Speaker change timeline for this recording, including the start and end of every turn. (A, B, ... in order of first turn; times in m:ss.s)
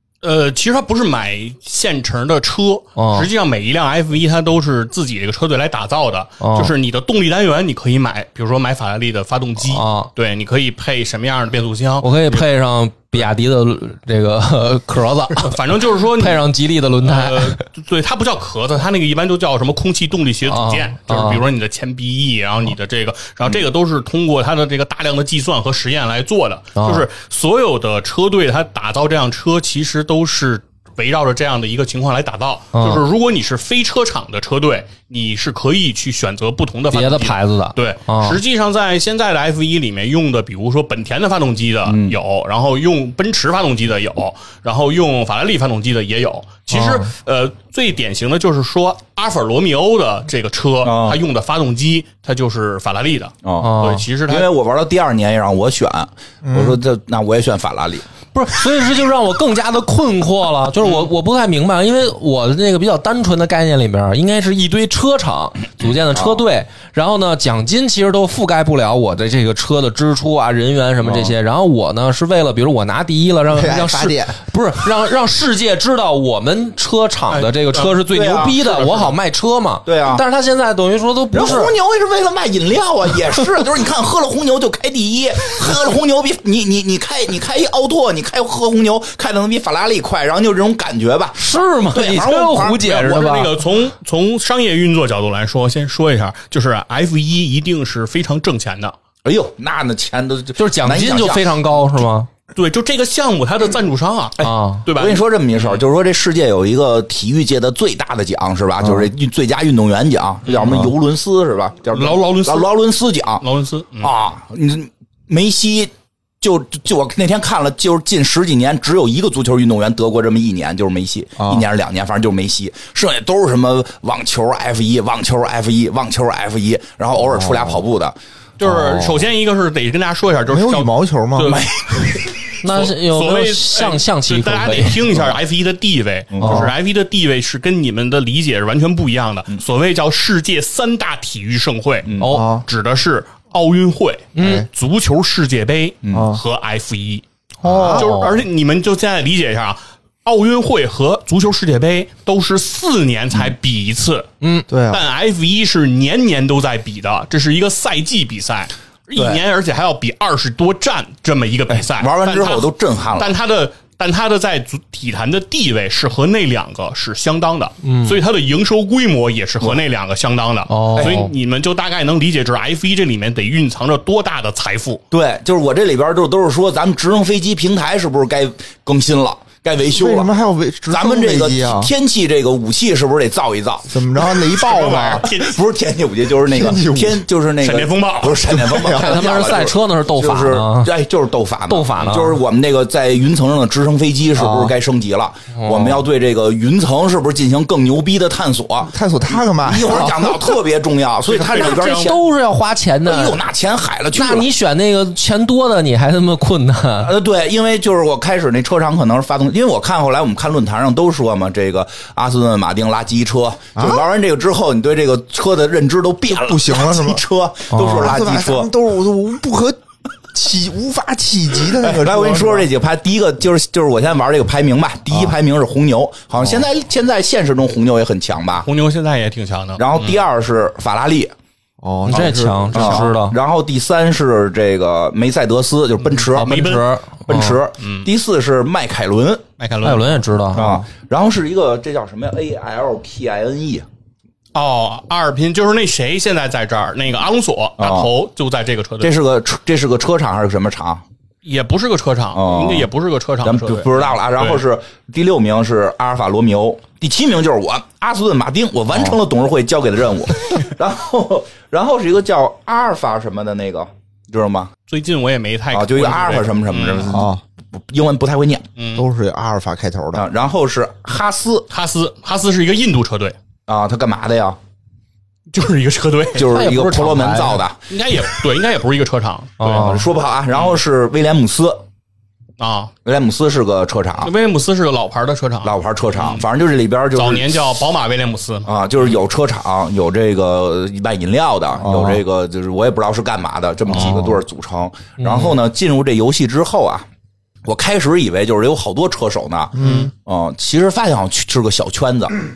0:00.2-0:12.4 A
0:03.0-0:03.3 B
0:06.4-0:06.7 B
0:09.6-0:10.1 B
0:12.0-0:15.6 B
0:15.4-0:16.4 A
0:16.1-0:17.6 B
0:17.0-0:54.5 A
0:20.4-0:21.4 B
0:26.7-0:27.1 B
0:32.7-0:33.0 B
0:36.9-0:38.4 B
0:41.8-0:42.2 C
0:50.8-0:51.2 C
0:53.4-0:53.7 C
0:53.6-0:54.0 B
0:54.3-0:58.1 C
0:56.4-0:56.8 D
0:58.3-1:21.7 B
1:06.1-1:06.4 C
1:11.0-1:11.3 C
1:13.5-1:14.4 D
1:17.3-1:19.1 A
1:18.1-1:18.6 C
1:19.8-1:20.2 C
1:21.3-1:33.1 C
1:31.4-1:33.6 B
1:32.8-1:39.0 A
1:39.2-1:41.6 C
1:40.6-1:42.3 B
1:42.5-1:45.8 A
1:44.4-1:53.4 C
1:44.4-1:44.9 B
1:50.4-1:50.8 A
1:51.9-1:52.7 A
1:53.4-1:54.1 A
1:54.0-2:08.1 C
2:01.4-2:01.6 D
2:07.3-2:07.8 D
2:08.6-2:27.2 A
2:08.6-2:09.3 D
2:10.5-2:11.6 D
2:11.4-2:12.4 C
2:12.6-2:15.0 B
2:16.3-2:16.7 C
2:16.4-2:16.7 B
2:22.0-2:22.4 C
2:22.2-2:22.5 B
2:22.2-2:22.6 D
2:24.3-2:24.6 B
2:24.4-2:24.7 D
2:26.0-2:26.3 C
2:26.1-2:26.4 D
2:27.6-2:28.1 D
2:27.6-2:28.4 B
2:27.8-2:34.3 A
2:34.4-2:34.7 B
2:34.7-2:35.0 D
2:34.9-2:55.0 A
2:39.2-2:39.4 C
2:41.7-2:43.4 C
2:47.8-2:48.2 B
2:50.7-2:51.3 B
2:51.0-2:51.2 C
2:55.1-3:00.3 C
2:59.9-3:01.9 D
3:00.9-3:04.1 C
3:03.9-3:05.3 D
3:04.3-3:05.6 A
3:05.2-3:22.2 C
3:06.4-3:07.2 D
3:07.6-3:08.7 A
3:08.5-3:09.3 D
3:08.9-3:10.9 B
3:11.7-3:12.4 B
3:14.4-3:14.7 D
3:15.5-3:16.0 B
3:18.8-3:20.5 D
3:21.3-3:22.2 A
3:21.5-3:23.4 B
3:23.0-3:24.5 C
3:24.1-3:27.1 B
3:27.0-3:38.7 C
3:33.8-3:34.0 D
3:36.3-3:37.2 D
3:37.7-3:38.2 B
3:37.8-3:39.8 D
3:40.3-3:42.7 D
3:41.7-3:48.7 C
3:48.6-3:50.2 A
3:49.8-3:51.3 C
3:51.8-3:53.0 D
3:52.0-3:53.4 B
3:52.1-3:56.5 C
3:52.7-3:53.0 A
3:56.3-3:57.6 B
3:56.4-3:56.9 A
3:57.3-3:59.4 C
3:57.8-3:58.1 A
3:59.6-4:00.2 A
3:59.8-4:00.7 B
4:00.5-4:03.9 C
4:00.6-4:00.8 D
4:04.5-4:09.1 A
4:07.8-4:08.1 C
4:09.0-4:11.0 C
4:11.4-4:14.6 A
4:12.3-4:12.9 C
4:13.4-4:24.7 C
4:24.9-4:27.3 A
4:25.7-4:28.7 C
4:27.1-4:27.4 D
4:28.8-4:29.0 A
4:29.0-4:30.2 D
4:30.1-4:31.7 C
4:31.7-4:33.4 A
4:33.7-4:34.6 C
4:35.5-4:36.6 A
4:36.3-4:37.8 C
4:36.5-4:37.6 B
4:37.9-4:40.0 A
4:39.6-4:40.1 B
4:39.7-4:41.8 C
4:42.6-4:42.9 A
4:43.0-4:44.3 C
4:44.2-4:46.4 A
4:45.6-4:47.6 C
4:47.1-4:48.7 A
4:48.6-4:57.1 C
4:51.8-4:52.2 D
4:53.9-4:54.3 D
4:55.2-4:55.6 B
4:57.6-5:02.4 C
4:59.8-5:00.1 D
4:59.8-5:00.1 A